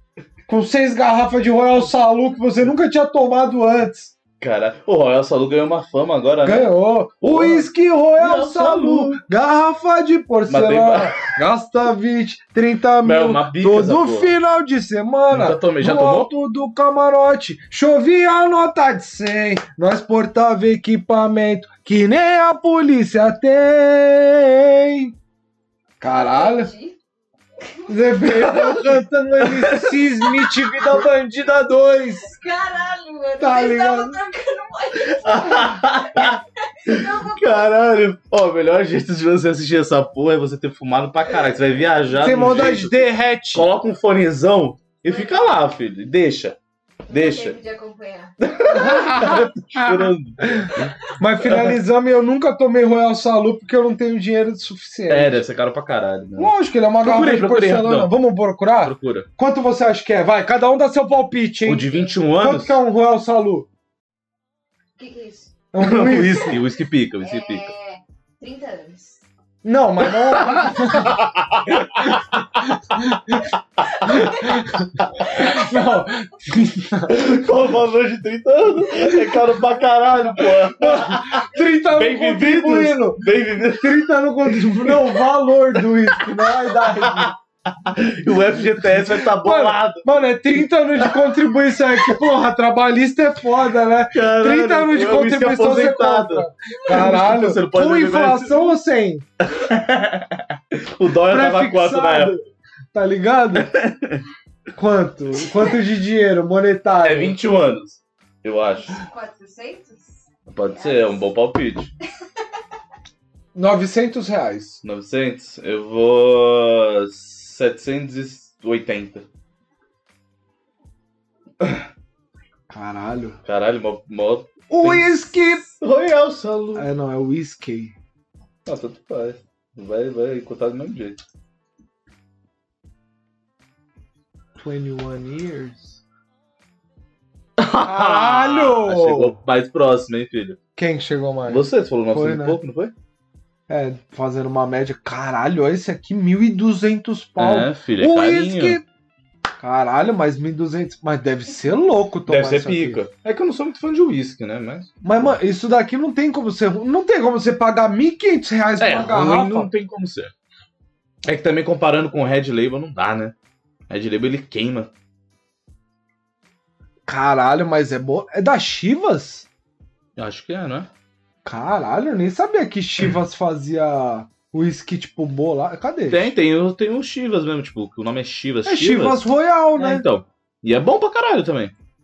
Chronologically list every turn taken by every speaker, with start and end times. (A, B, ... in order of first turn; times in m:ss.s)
0:00.5-0:04.1 A
0:04.4-0:06.7 B
0:06.4-0:25.1 A
0:07.2-0:09.2 B
0:10.5-0:11.2 B
0:13.0-0:14.4 B
0:15.3-0:16.3 B
0:26.0-0:26.7 A
0:26.0-0:27.0 C
0:27.6-0:28.0 C
0:27.9-0:32.3 A
0:28.3-0:31.0 B
0:32.2-0:37.8 C
0:33.4-0:34.2 A
0:35.1-0:46.6 B
0:42.2-0:43.7 A
0:45.0-0:45.6 C
0:47.1-0:48.3 C
0:47.1-0:47.6 B
0:48.4-0:51.8 B
0:48.6-0:55.4 A
0:55.1-0:58.1 B
0:56.4-1:03.7 A
0:58.8-0:59.3 B
1:01.6-1:02.8 B
1:05.0-1:05.5 C
1:05.7-1:06.6 A
1:05.8-1:07.7 B
1:07.2-1:09.2 C
1:09.6-1:11.2 A
1:10.1-1:13.1 B
1:12.7-1:13.5 A
1:13.8-1:15.5 B
1:14.0-1:17.3 A
1:14.1-1:14.4 C
1:17.1-1:24.1 B
1:20.8-1:27.3 A
1:24.7-1:25.2 B
1:25.8-1:31.4 B
1:28.5-1:39.2 A
1:34.1-1:38.7 B
1:39.4-1:42.4 B
1:41.3-1:42.4 A
1:42.9-1:43.7 A
1:43.6-1:44.2 B
1:44.8-1:47.4 A
1:47.0-1:49.0 B
1:48.8-1:51.3 C
1:50.5-1:51.9 B
1:53.6-1:54.8 A
1:54.8-1:59.3 B
2:01.6-2:01.9 B
2:02.7-2:03.4 A
2:03.5-2:06.9 B
2:04.7-2:05.7 A
2:06.8-2:07.9 A
2:08.6-2:11.2 B
2:14.6-2:16.0 A
2:17.6-2:20.6 B
2:17.8-2:19.4 A
2:20.8-2:22.6 A
2:21.5-2:22.9 B
2:23.7-2:28.8 A
2:27.4-2:28.8 B
2:29.6-2:33.0 A
2:32.3-2:34.9 B
2:35.0-2:39.7 A
2:38.8-2:40.3 B
2:41.3-2:43.3 B
2:43.9-2:44.9 B
2:47.1-2:49.5 A
2:50.2-2:50.9 B
2:51.4-2:56.3 A
2:56.1-3:01.7 B
2:58.7-3:00.0 A